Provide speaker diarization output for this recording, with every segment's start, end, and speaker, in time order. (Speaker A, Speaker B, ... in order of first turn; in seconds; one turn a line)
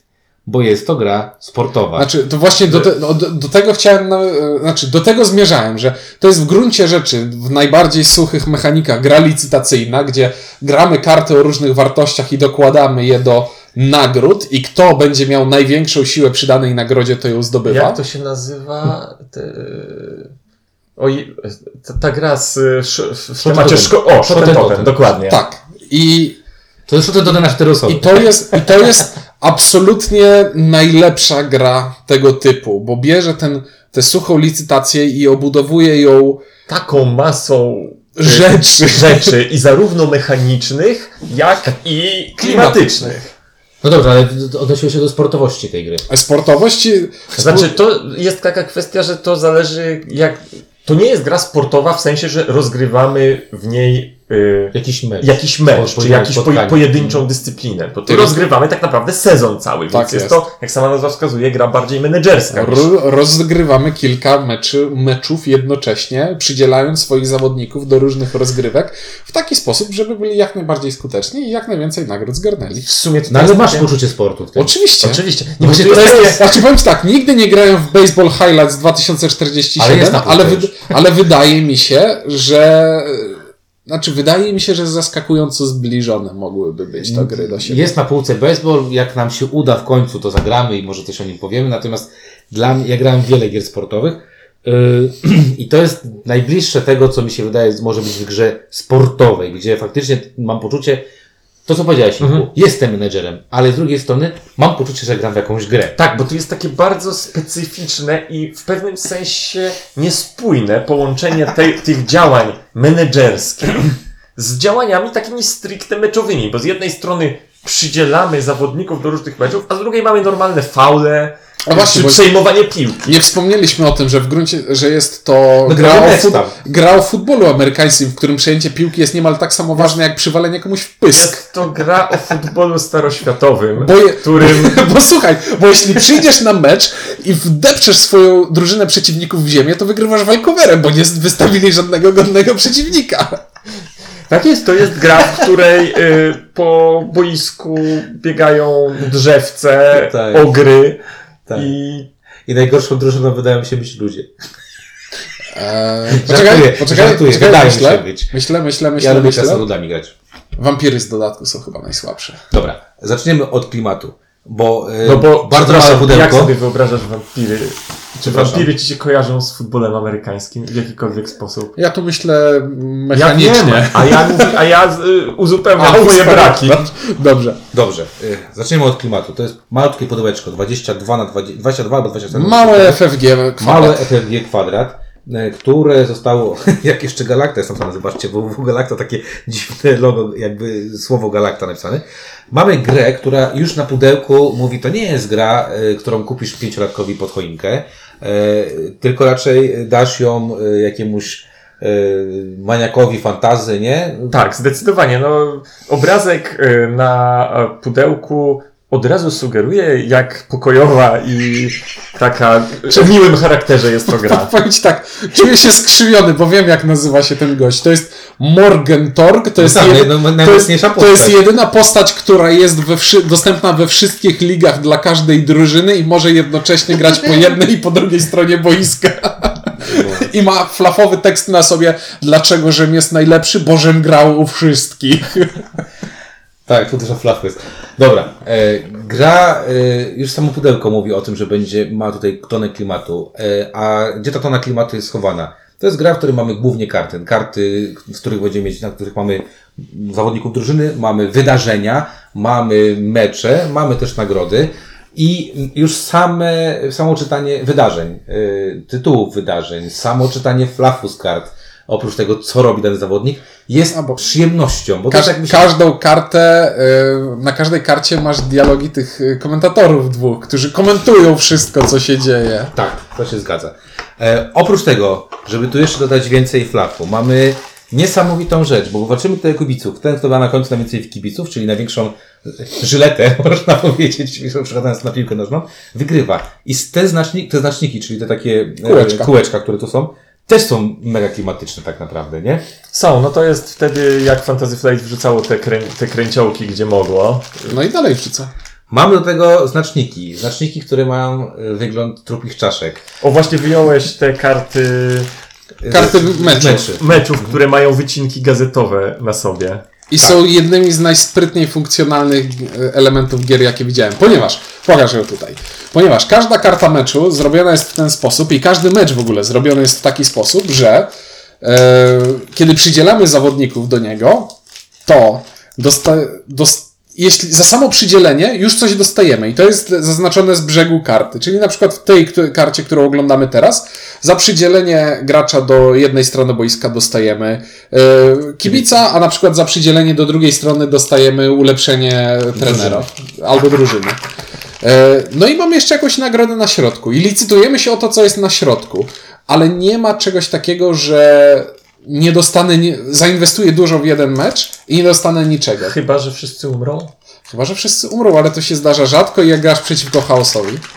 Speaker A: 0.4-2.1
Speaker B: 1.9-18.0
Speaker C: 17.6-20.3
Speaker C: 20.9-25.4
Speaker A: 23.4-25.0
Speaker B: 25.2-26.4
Speaker A: 26.9-28.1
Speaker B: 27.9-36.4
Speaker C: 36.7-43.3
Speaker B: 38.2-39.3
Speaker B: 42.4-43.1
Speaker A: 43.8-46.1
Speaker B: 46.1-47.7
Speaker C: 47.4-62.9
Speaker A: 54.7-57.2
Speaker B: 58.1-58.4
Speaker B: 59.9-60.4
Speaker B: 62.5-72.9
Speaker C: 72.8-73.9
Speaker A: 73.3-74.7
Speaker B: 74.5-87.9
Speaker C: 75.0-76.6
Speaker A: 79.8-80.8
Speaker A: 87.0-101.0
Speaker A: 101.7-106.0
Speaker C: 102.2-102.5
Speaker C: 106.0-123.1
Speaker B: 121.7-122.3
Speaker B: 123.0-131.4
Speaker A: 125.6-126.5
Speaker C: 131.1-134.8
Speaker B: 133.8-143.4
Speaker C: 144.3-151.0
Speaker A: 149.9-150.5
Speaker C: 151.5-152.1
Speaker A: 152.5-154.3
Speaker B: 155.5-159.6
Speaker A: 156.1-158.3
Speaker A: 159.0-160.1
Speaker B: 160.6-162.4
Speaker A: 162.5-166.5
Speaker C: 165.0-171.7
Speaker A: 168.2-168.7
Speaker B: 171.8-174.5
Speaker C: 173.1-176.8
Speaker B: 175.8-177.6
Speaker A: 177.7-183.0
Speaker B: 182.3-184.1
Speaker A: 183.6-204.4
Speaker C: 204.3-214.5
Speaker B: 214.1-235.6
Speaker A: 219.6-221.5
Speaker A: 229.8-230.3
Speaker A: 236.7-265.7
Speaker B: 265.1-272.7
Speaker A: 272.7-292.6
Speaker B: 288.8-289.3
Speaker C: 292.9-297.8
Speaker B: 297.7-298.5
Speaker A: 298.9-303.0
Speaker C: 303.2-305.3
Speaker A: 305.8-307.0
Speaker B: 305.9-306.9
Speaker C: 307.0-309.8
Speaker B: 310.1-321.1
Speaker B: 321.6-324.5
Speaker B: 325.1-344.2
Speaker A: 342.5-343.0
Speaker B: 344.8-355.9
Speaker C: 355.8-357.1
Speaker B: 357.5-360.8